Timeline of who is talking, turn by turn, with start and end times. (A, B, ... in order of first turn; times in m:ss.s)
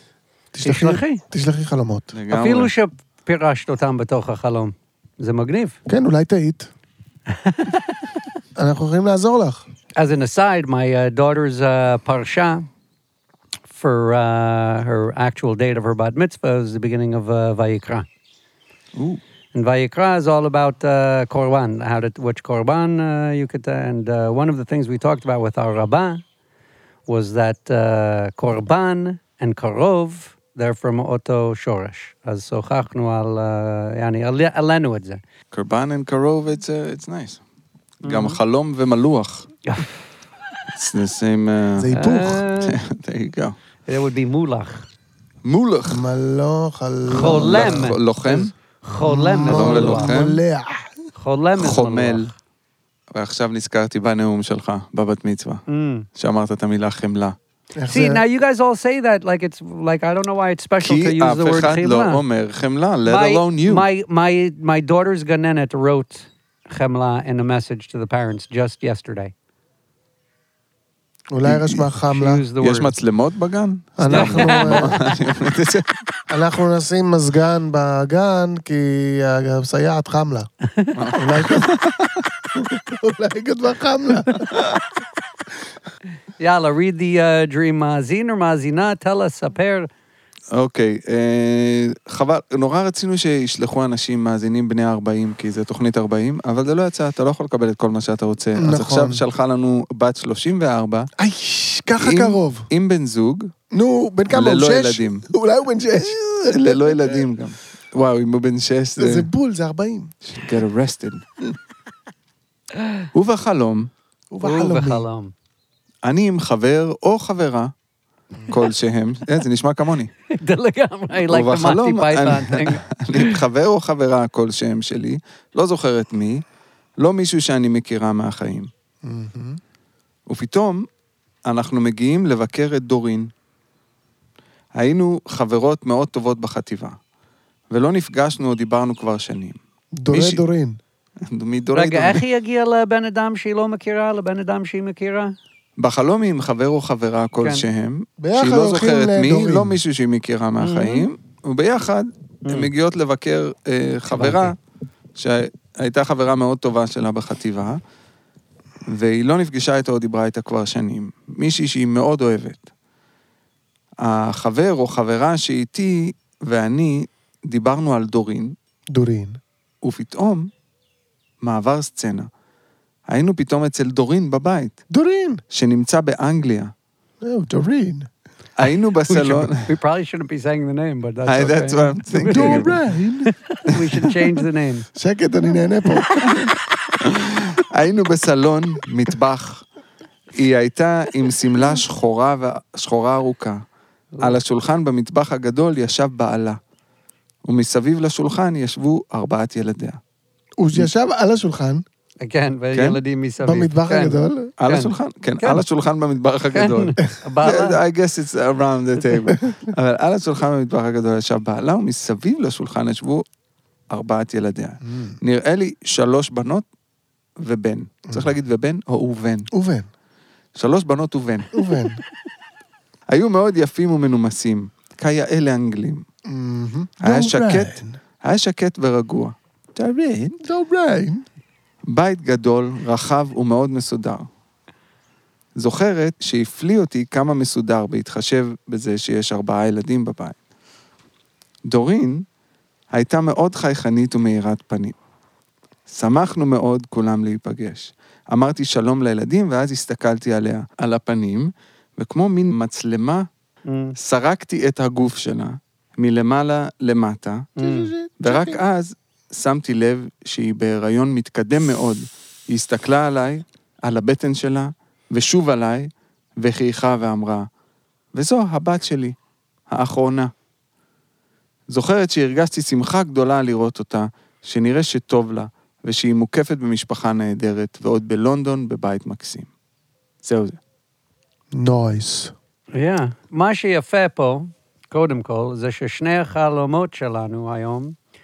0:00.5-0:02.1 A
0:00.6-0:01.2 B
0:02.1-0:02.7 C
0:02.3-0:05.8 B
0:05.9-0:06.7 A
0:07.4-0:07.8 B
0:08.6-0:09.6 A
0:10.0-0:12.7 B
0:13.7-0:18.0 B
0:19.0-0:19.2 C
0:19.5-0:26.2 B
0:27.1-0:35.2 B
0:35.5-0:37.4 C
0:38.0-0:39.5 C
0:38.0-0:38.4 B
0:40.7-0:42.0 C
0:41.8-0:42.5 A
0:42.0-0:42.8 B
0:42.6-0:43.6 C
0:43.9-0:44.9 B
0:45.4-0:46.0 C
0:45.9-0:47.8 A
0:47.1-0:50.2 B
0:47.2-0:48.5 C
0:49.0-0:51.0 A
0:49.4-0:50.4 C
0:51.2-0:52.3 B
0:51.6-0:52.3 C
0:53.1-0:55.6 C
0:55.7-0:56.0 B
0:56.2-0:57.4 C
0:57.8-0:58.2 A
0:57.9-1:02.2 B
1:00.8-1:03.8 C
1:03.0-1:09.3 B
1:11.3-1:12.4 A
1:11.4-1:11.8 C
1:12.1-1:12.9 B
1:12.6-1:15.9 C
1:14.0-1:15.0 A
1:14.1-1:15.0 B
1:16.3-1:20.5 A
1:20.9-1:22.3 C
1:21.1-1:21.7 A
1:22.6-1:24.4 A
1:24.5-1:24.8 C
1:26.4-1:29.9 B
1:30.5-1:41.1 C
1:38.6-1:39.2 A
1:41.2-1:42.7 A
1:42.0-1:43.5 C
1:43.7-1:47.2 A
1:44.3-1:45.2 C
1:46.0-1:49.3 C
1:49.0-1:50.1 A
1:50.2-1:51.2 C
1:52.8-1:53.0 B
1:53.1-1:53.9 C
1:54.3-1:55.0 A
1:54.4-1:55.3 B
1:56.0-1:57.7 C
1:58.5-2:00.1 C
2:00.3-2:03.4 B
2:01.2-2:06.4 C
2:07.0-2:08.7 C
2:09.0-2:09.6 A
2:10.3-2:10.8 C
2:11.4-2:13.3 C
2:14.8-2:17.0 C
2:17.7-2:19.6 C
2:20.0-2:20.8 A
2:20.1-2:20.4 C
2:21.2-2:22.2 C
2:21.7-2:25.3 B
2:25.8-2:34.6 C
2:27.4-2:27.6 B
2:28.2-2:29.7 A
2:30.6-2:31.0 B
2:34.1-2:34.5 B
2:35.2-2:37.8 C
2:38.9-2:42.6 C
2:44.0-2:48.6 C
2:48.9-2:49.4 A
2:49.8-2:50.5 C
2:51.4-2:52.3 C
2:53.1-2:54.8 C
2:54.9-2:55.4 A
2:55.5-2:56.7 C
2:57.2-2:58.1 A
2:58.6-2:59.7 C
2:59.1-3:02.7 B
3:01.2-3:02.7 C
3:02.3-3:03.3 A
3:03.3-3:04.9 B
3:03.7-3:04.1 C
3:05.0-3:06.1 A
3:06.2-3:06.5 C
3:07.0-3:09.6 C
3:10.3-3:13.6 C
3:14.2-3:16.6 C
3:17.4-3:20.0 C
3:20.6-3:21.8 A
3:22.2-3:25.6 B
3:22.7-3:23.0 C
3:23.4-3:24.5 A
3:24.6-3:33.2 C
3:26.5-3:27.8 B
3:33.9-3:36.6 C
3:34.8-3:35.2 A
3:37.4-3:39.5 C
3:39.5-3:39.9 A
3:40.6-3:41.5 C
3:41.5-3:42.0 A
3:43.1-3:46.0 C
3:46.3-3:48.0 A
3:47.0-3:50.4 C
3:50.4-3:51.2 A
3:51.9-3:54.3 C
3:55.6-4:00.4 C
4:01.7-4:02.2 C
4:02.9-4:04.9 C
4:05.9-4:13.3 C
4:13.7-4:14.0 B
4:14.0-4:17.5 C
4:17.6-4:17.9 B
4:17.6-4:18.6 A
4:18.2-4:27.5 C
4:28.1-4:29.2 C
4:29.7-4:30.3 C
4:31.7-4:39.5 C
4:40.2-4:40.6 C
4:41.5-4:42.3 A
4:42.7-4:47.9 B